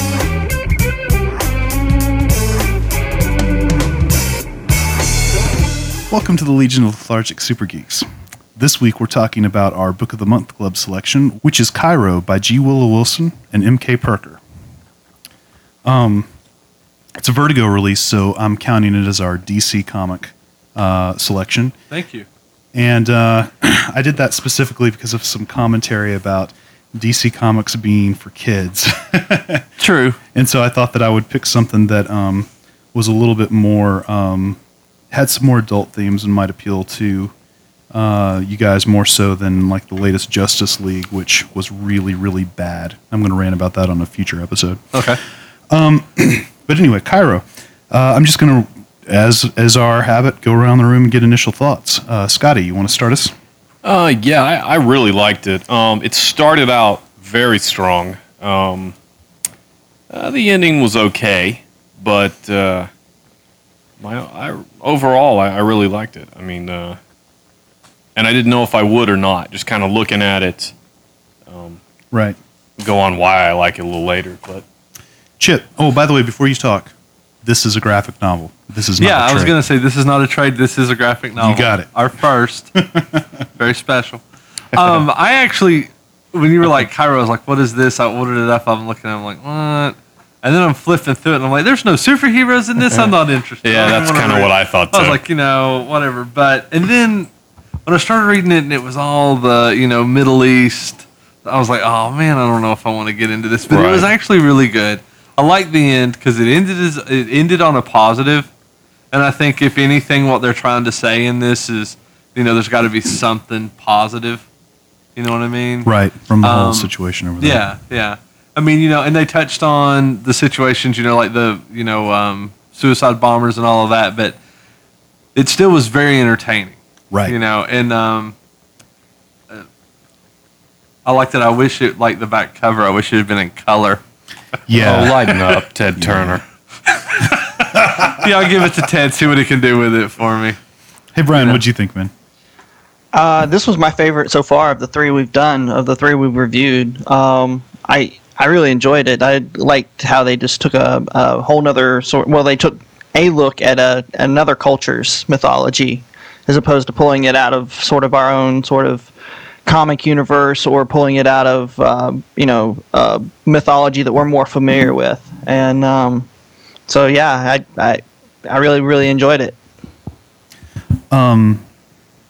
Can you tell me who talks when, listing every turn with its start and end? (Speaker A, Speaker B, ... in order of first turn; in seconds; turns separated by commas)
Speaker A: 6.1-14.4, Speaker A: 15.8-16.3, Speaker A: 17.2-21.7, Speaker B: 21.9-22.2, Speaker A: 22.7-29.6, Speaker B: 29.8-30.2, Speaker A: 30.3-34.6, Speaker A: 35.1-37.3, Speaker A: 37.9-45.0, Speaker B: 44.9-45.2, Speaker A: 45.7-53.3, Speaker C: 53.8-58.9, Speaker C: 60.1-62.9, Speaker C: 64.0-67.0, Speaker C: 68.2-70.7, Speaker C: 71.5-71.8, Speaker A: 72.1-72.4, Speaker C: 72.8-74.6, Speaker A: 75.4-76.9, Speaker A: 77.4-79.6, Speaker B: 79.0-82.7, Speaker A: 81.4-81.9, Speaker A: 82.8-83.2, Speaker B: 83.6-84.2, Speaker C: 84.7-85.0, Speaker B: 84.7-97.3, Speaker C: 92.9-95.2, Speaker B: 97.8-108.5, Speaker C: 103.7-104.1, Speaker B: 109.1-114.4, Speaker B: 115.2-124.3, Speaker A: 115.8-117.6, Speaker B: 125.3-128.3, Speaker B: 131.0-134.0, Speaker A: 134.7-135.4, Speaker C: 134.8-136.4, Speaker A: 136.0-136.4, Speaker A: 137.6-138.2, Speaker B: 138.0-140.6, Speaker A: 141.1-142.1, Speaker B: 141.3-141.6, Speaker D: 143.1-159.1, Speaker D: 159.7-166.3, Speaker D: 166.9-169.6, Speaker A: 171.1-171.6